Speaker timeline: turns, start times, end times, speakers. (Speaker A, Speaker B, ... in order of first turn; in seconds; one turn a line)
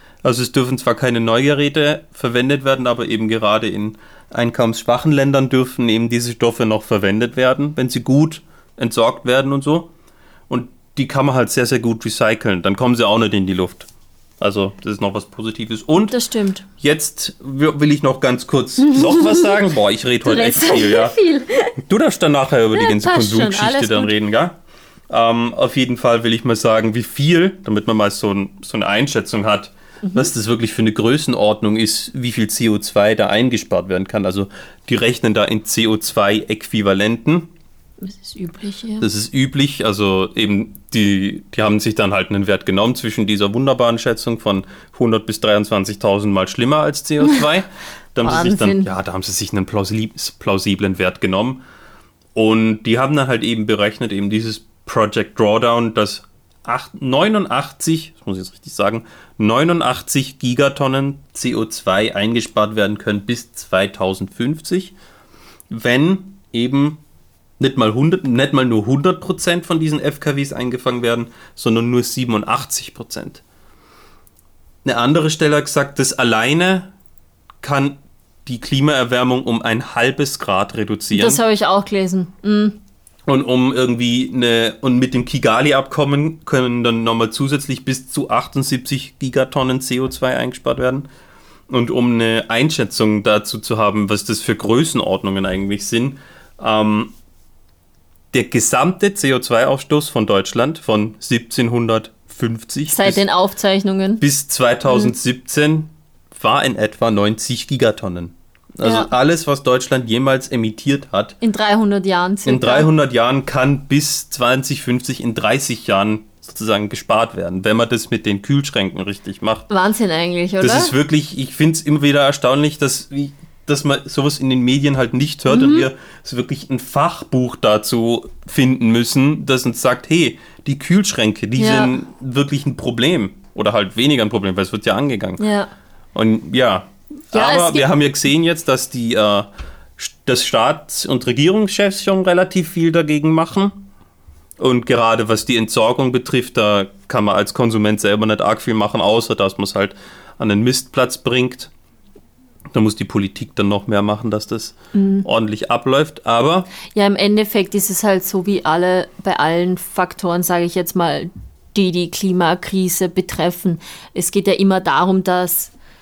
Speaker A: 0.2-9.9
Speaker A: 10.5-13.9
Speaker A: 14.4-16.1
Speaker B: 16.1-16.6
Speaker A: 16.8-21.1
Speaker B: 18.9-19.5
Speaker B: 20.2-21.8
Speaker A: 21.8-24.6
Speaker B: 22.7-24.1
Speaker A: 25.1-37.5
Speaker B: 30.0-30.3
Speaker B: 38.0-39.1
Speaker A: 39.0-51.6
Speaker B: 48.2-48.9
Speaker A: 52.3-64.9
Speaker A: 65.7-67.0
Speaker A: 67.6-73.4
Speaker A: 74.8-76.9
Speaker A: 77.6-81.4
Speaker B: 81.1-82.8
Speaker A: 83.3-91.0
Speaker A: 91.7-97.1
Speaker A: 98.3-103.2
Speaker B: 102.9-104.2
Speaker A: 104.2-111.3
Speaker B: 104.9-105.1
Speaker B: 108.8-109.1
Speaker B: 111.4-112.9
Speaker A: 112.5-119.7
Speaker B: 119.7-120.9
Speaker A: 120.6-135.4
Speaker B: 125.5-125.9
Speaker B: 131.6-132.0
Speaker B: 135.4-135.7
Speaker A: 136.1-143.7
Speaker B: 137.3-137.9
Speaker A: 144.6-151.7
Speaker A: 152.7-156.7
Speaker B: 154.9-155.3
Speaker B: 156.9-165.7